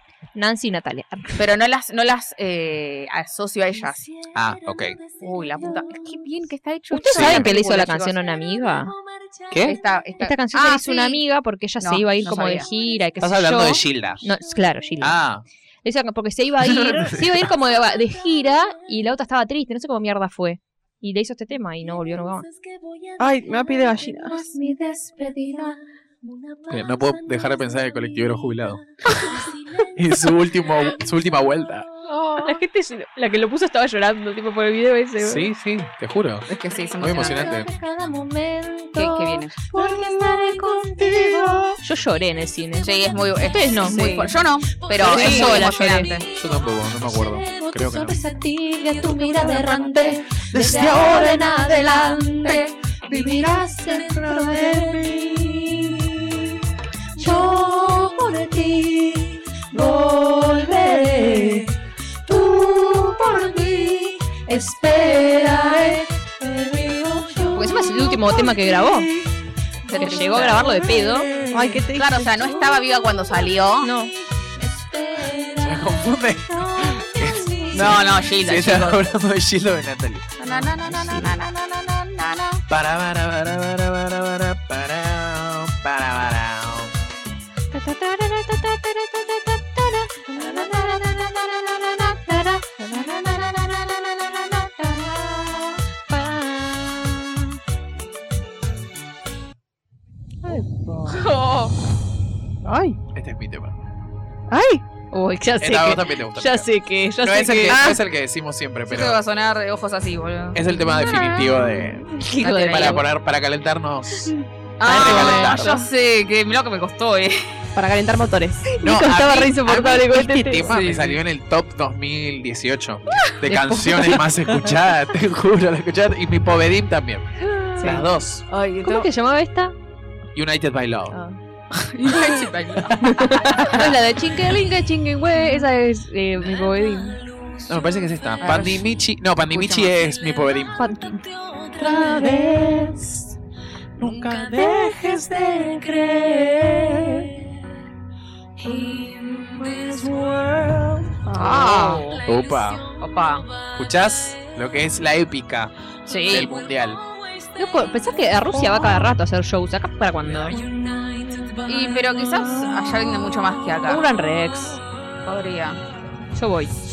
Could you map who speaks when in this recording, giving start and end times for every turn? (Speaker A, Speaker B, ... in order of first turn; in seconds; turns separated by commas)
Speaker A: 0.3-1.5, Speaker B: 1.4-4.1, Speaker C: 4.2-6.2, Speaker D: 4.3-5.0, Speaker B: 5.2-8.1, Speaker A: 6.9-8.9, Speaker D: 7.1-7.5, Speaker C: 8.5-9.8, Speaker D: 9.5-9.8, Speaker B: 9.6-11.2, Speaker A: 10.2-15.2, Speaker B: 11.8-12.7, Speaker D: 13.2-14.3, Speaker D: 15.0-15.4, Speaker A: 15.8-22.5, Speaker D: 16.7-17.5, Speaker C: 17.6-18.6, Speaker C: 22.0-31.0, Speaker E: 23.2-24.4, Speaker D: 26.7-28.8, Speaker D: 29.9-31.9, Speaker B: 32.1-32.6, Speaker A: 32.4-35.5, Speaker D: 35.2-36.5, Speaker B: 36.5-37.6, Speaker D: 37.0-37.7, Speaker C: 37.5-41.8, Speaker B: 39.0-39.6, Speaker A: 39.0-39.5, Speaker A: 41.8-44.2, Speaker B: 42.8-46.3, Speaker E: 43.9-44.3, Speaker C: 44.8-56.6, Speaker A: 45.0-46.1, Speaker D: 45.0-45.6, Speaker D: 46.4-48.2, Speaker D: 50.5-51.3, Speaker C: 57.1-69.2, Speaker A: 67.5-69.1, Speaker C: 69.9-71.6, Speaker B: 69.9-70.9, Speaker A: 69.9-71.3, Speaker E: 71.5-72.3, Speaker B: 71.9-73.9, Speaker A: 73.8-74.1, Speaker C: 73.8-78.2, Speaker D: 75.6-81.0, Speaker B: 77.7-79.0, Speaker B: 80.4-82.6, Speaker D: 82.7-86.9, Speaker A: 87.7-91.2, Speaker C: 90.3-91.8, Speaker A: 92.2-93.5, Speaker C: 92.4-96.1, Speaker A: 95.6-97.1, Speaker A: 100.4-101.2, Speaker B: 101.1-101.7, Speaker E: 102.7-103.0, Speaker D: 103.1-103.8, Speaker E: 104.5-104.8, Speaker A: 105.1-107.8, Speaker D: 105.6-106.7, Speaker D: 107.2-109.2, Speaker E: 107.7-108.0, Speaker B: 108.9-110.6, Speaker D: 110.5-114.3, Speaker A: 110.9-113.0, Speaker B: 112.3-113.0, Speaker B: 114.8-117.6, Speaker E: 114.9-115.8, Speaker D: 114.9-115.7, Speaker A: 114.9-115.8, Speaker E: 117.8-120.7, Speaker D: 118.8-127.3, Speaker A: 118.9-120.7, Speaker B: 120.7-121.2, Speaker A: 123.5-124.3, Speaker A: 127.5-128.0, Speaker D: 127.8-128.5, Speaker B: 127.8-129.1, Speaker A: 128.8-129.7, Speaker D: 130.3-131.2, Speaker B: 131.7-133.9, Speaker A: 133.0-137.2, Speaker C: 134.5-135.6, Speaker C: 136.4-138.6, Speaker D: 137.7-140.8, Speaker B: 138.4-138.9, Speaker B: 139.5-140.0, Speaker C: 140.3-143.0, Speaker A: 140.8-141.2, Speaker D: 141.8-143.3, Speaker D: 144.0-145.4, Speaker C: 144.0-147.3, Speaker C: 148.6-153.8, Speaker D: 150.3-150.9, Speaker E: 151.2-152.0, Speaker B: 151.3-152.2, Speaker D: 152.2-152.8, Speaker B: 153.0-153.5, Speaker D: 153.8-157.0, Speaker B: 156.1-156.5, Speaker C: 156.2-159.1, Speaker A: 157.6-160.6, Speaker C: 160.3-163.3, Speaker B: 161.7-164.0, Speaker A: 163.9-164.8, Speaker B: 165.2-165.8, Speaker A: 166.3-166.7